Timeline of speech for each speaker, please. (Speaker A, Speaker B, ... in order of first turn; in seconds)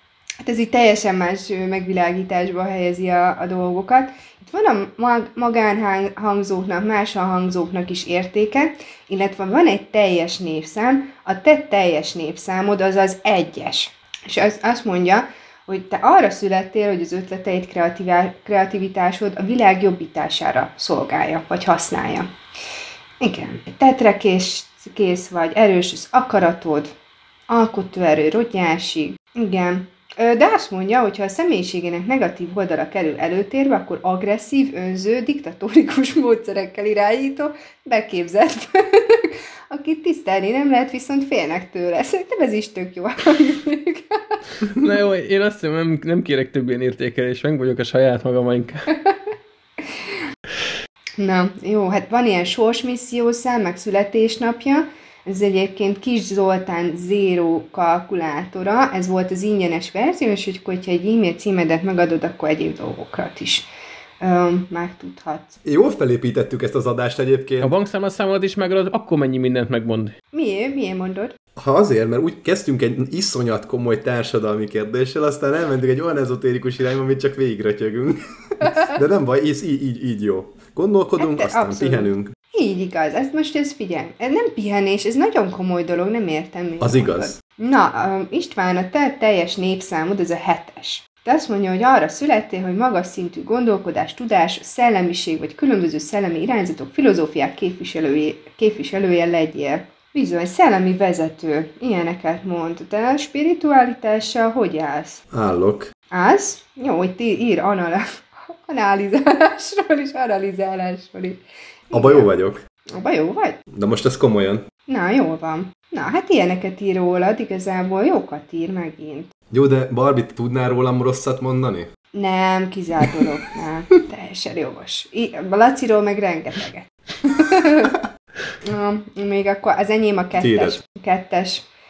Speaker A: 0.4-22.3, 23.2-26.9, 27.5-44.4, 51.2-63.7, 64.2-65.6, 70.3-71.3, 81.2-105.2, 106.1-112.3, 112.9-113.5, 114.9-119.3, 122.1-128.0, 128.6-131.7
Speaker B: 44.7-48.9, 67.6-70.1
Speaker C: 65.6-67.7, 71.5-82.3, 86.8-87.4, 105.3-105.9, 111.9-112.6, 113.7-114.6, 119.5-121.9, 130.3-130.8